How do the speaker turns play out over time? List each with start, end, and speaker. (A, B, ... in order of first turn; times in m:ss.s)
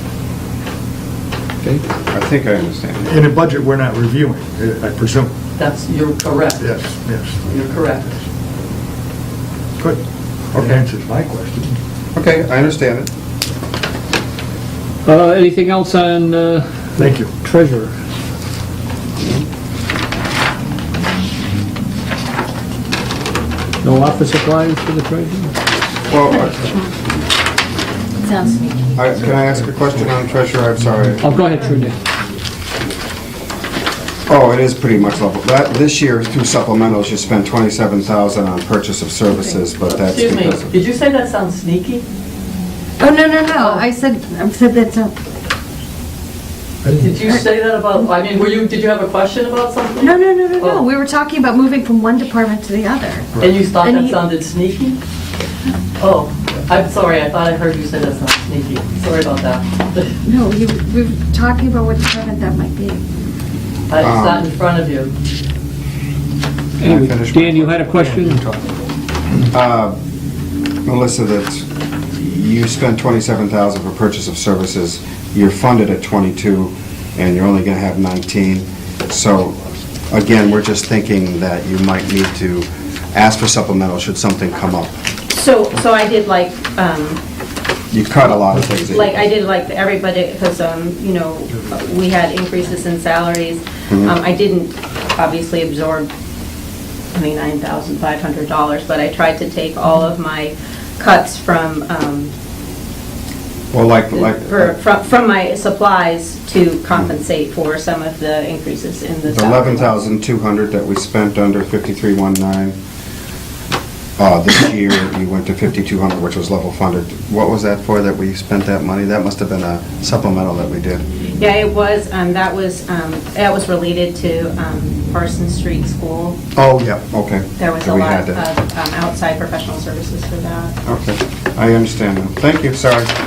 0:01.6-0:03.3 A
0:03.0-0:05.3 B
0:05.6-0:06.8 C
0:06.6-0:07.4 B
0:07.4-0:08.1 C
0:09.8-0:11.8 B
0:10.5-0:10.8 A
0:12.1-0:13.1 A
0:15.0-0:17.9 D
0:17.0-0:17.3 B
0:19.2-0:19.4 A
0:23.8-0:25.5 D
0:26.1-0:26.7 A
0:28.2-0:28.9 E
0:28.9-0:31.3 A
0:31.2-0:31.9 D
0:34.3-0:40.8 A
0:39.8-0:42.0 C
0:43.0-0:45.1 E
0:43.5-0:43.8 C
0:46.8-0:47.2 B
0:47.0-0:50.9 C
0:50.0-0:54.2 E
0:53.4-0:55.0 C
0:56.0-1:00.2 C
1:00.2-1:03.0 E
1:03.9-1:05.1 C
1:04.0-1:04.5 A
1:06.8-1:08.5 D
1:06.8-1:07.9 A
1:08.0-1:08.8 B
1:09.5-1:10.0 A
1:10.8-1:19.6 A
1:20.1-1:25.0 A
1:25.3-1:27.2 F
1:27.9-1:29.3 A
1:28.6-1:36.1 F
1:37.1-1:42.3 F
1:43.7-1:44.7 A
1:44.1-1:50.0 F
1:49.3-1:52.8 A
1:54.2-2:01.0 A
2:01.4-2:06.4 F
2:06.5-2:08.4 A
2:07.6-2:10.7 F
2:10.8-2:13.1 A